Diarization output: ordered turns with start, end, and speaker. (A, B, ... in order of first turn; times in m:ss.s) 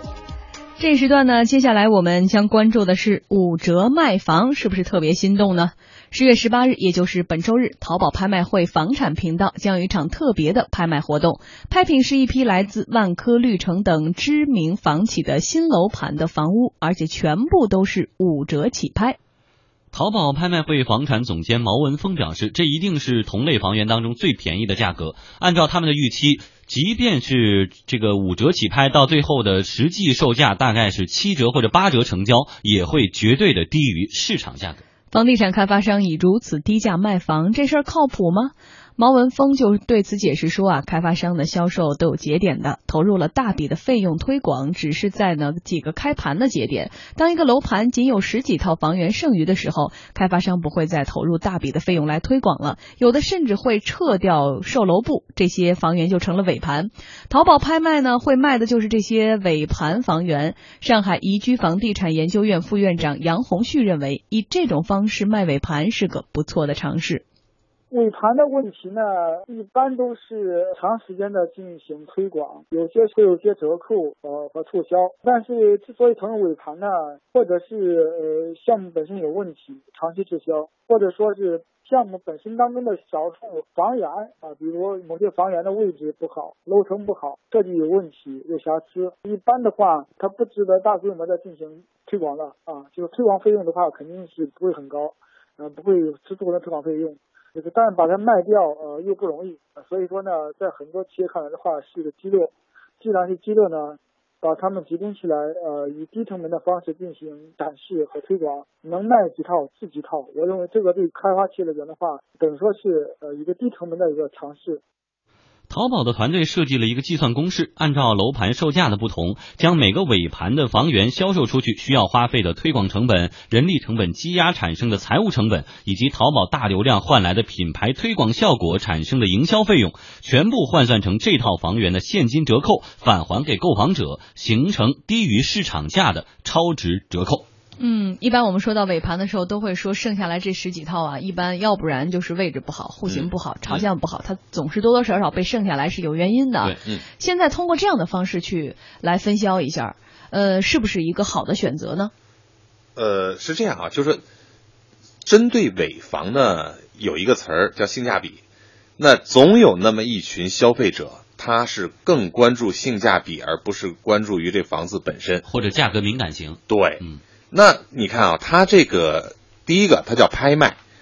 0:00.8-0:19.2 A
0:19.9-0:34.8 B
0:35.1-1:07.2 A
1:07.9-1:54.8 C
1:55.7-2:17.4 B
2:17.8-2:32.1 A
2:23.1-2:23.8 D
2:33.0-2:34.2 D
2:35.2-2:38.4 D
2:39.0-2:45.4 D
2:45.4-2:47.2 B
2:46.7-2:50.8 D